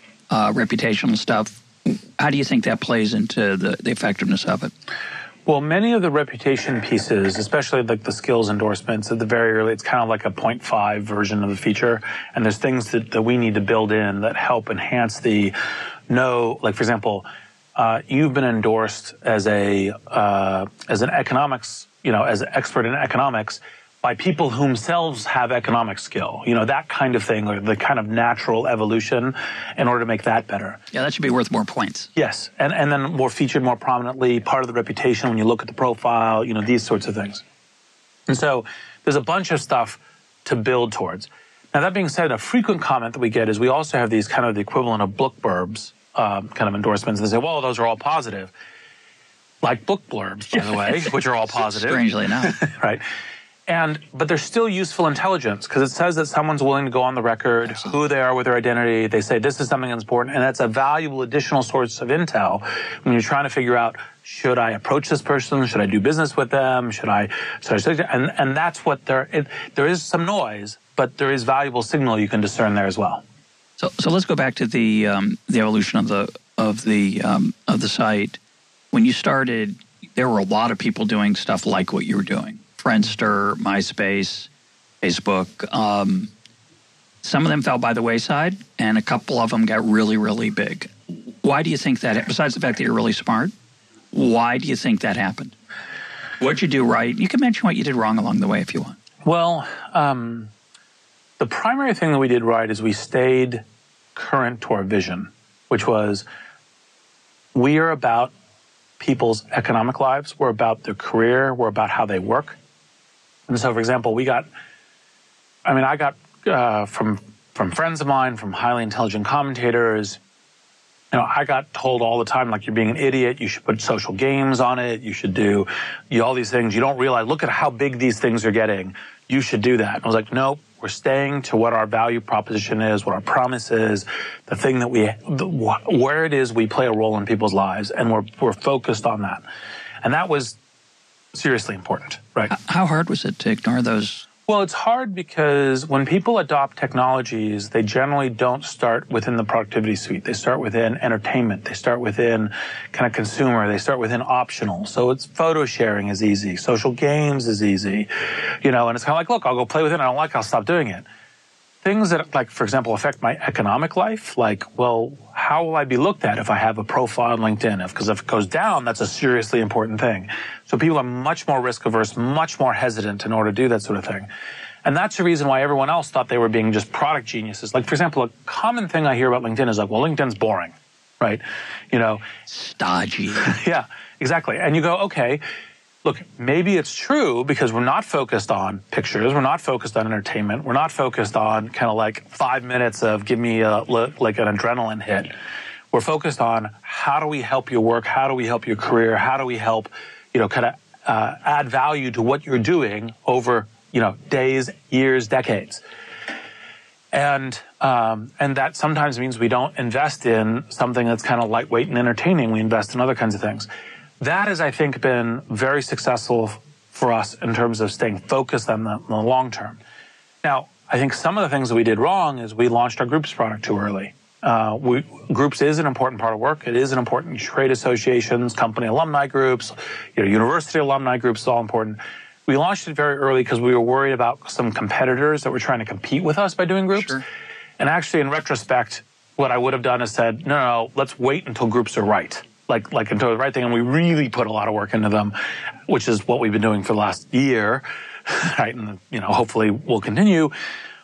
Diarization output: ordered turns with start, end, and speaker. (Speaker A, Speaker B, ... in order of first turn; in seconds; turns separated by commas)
Speaker A: 0.3-4.7, Speaker B: 5.5-15.5, Speaker B: 16.1-30.8, Speaker A: 30.9-32.1, Speaker B: 32.2-37.4, Speaker B: 38.3-48.5, Speaker B: 49.6-53.0, Speaker A: 50.5-52.6, Speaker B: 53.7-73.2, Speaker A: 73.8-78.4, Speaker A: 78.9-84.5, Speaker A: 85.0-86.3, Speaker A: 87.2-93.5, Speaker A: 94.1-95.5, Speaker A: 96.4-99.0, Speaker B: 99.2-100.5, Speaker B: 101.4-103.6, Speaker B: 104.2-106.3, Speaker B: 107.5-108.3, Speaker B: 109.0-112.6, Speaker B: 113.5-114.5, Speaker B: 115.7-120.2, Speaker B: 121.1-139.4, Speaker B: 140.0-140.6, Speaker B: 141.3-142.5, Speaker A: 142.5-144.3, Speaker B: 144.5-161.1, Speaker B: 161.8-174.3, Speaker B: 174.8-182.3, Speaker A: 182.5-183.6, Speaker B: 183.4-185.4, Speaker B: 186.0-195.3, Speaker B: 195.9-205.8, Speaker B: 207.1-213.7, Speaker B: 214.2-219.8, Speaker B: 220.4-237.2, Speaker B: 237.8-245.3, Speaker B: 245.9-250.5